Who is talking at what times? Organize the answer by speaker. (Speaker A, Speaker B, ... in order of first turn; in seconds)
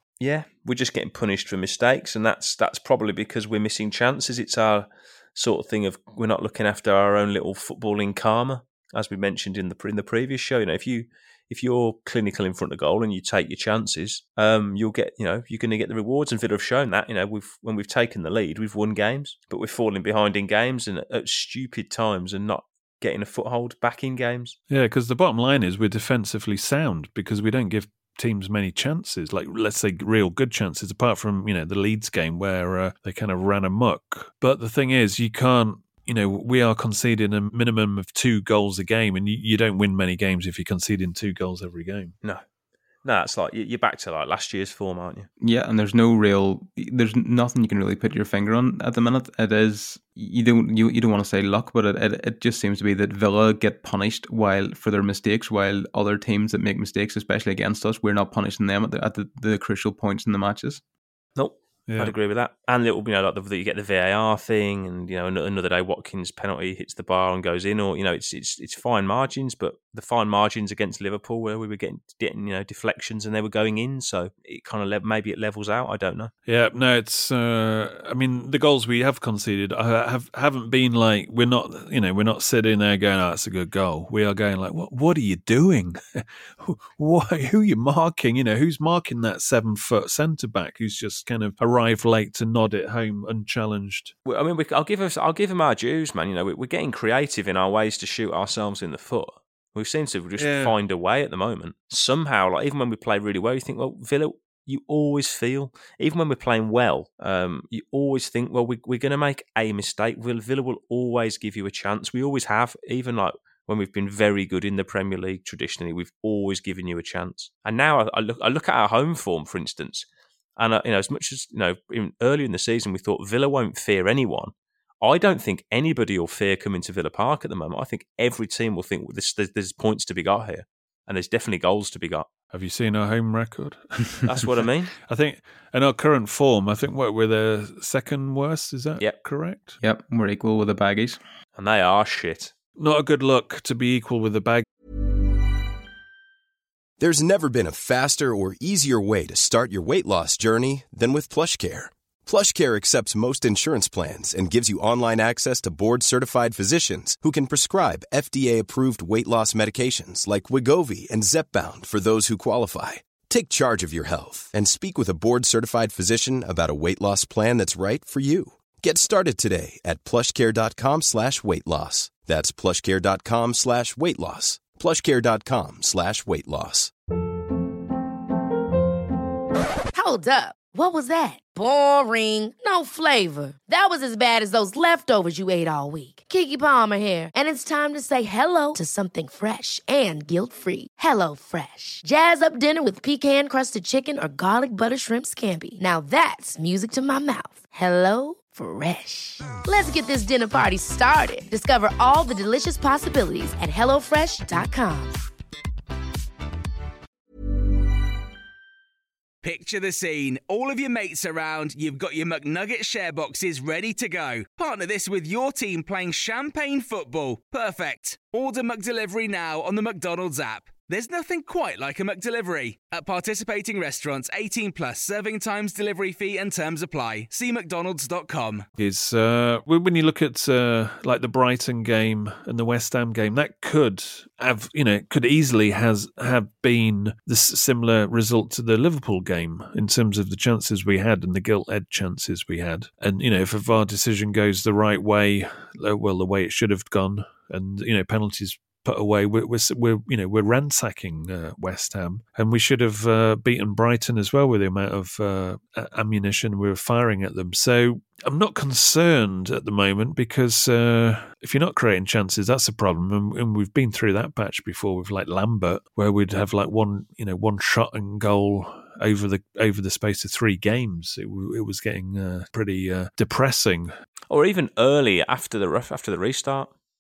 Speaker A: 0.2-24.6, 43.0-45.3, 61.4-76.3, 94.3-120.1, 120.6-132.3, 134.2-134.9, 141.6-142.5, 274.3-276.7
Speaker B: 24.7-42.1, 61.9-62.1, 76.5-94.1, 100.4-100.7, 132.5-139.8, 142.8-144.7, 228.8-273.9
Speaker C: 45.4-60.8, 139.8-141.2
Speaker D: 147.0-176.9
Speaker E: 179.9-205.2
Speaker F: 209.4-228.7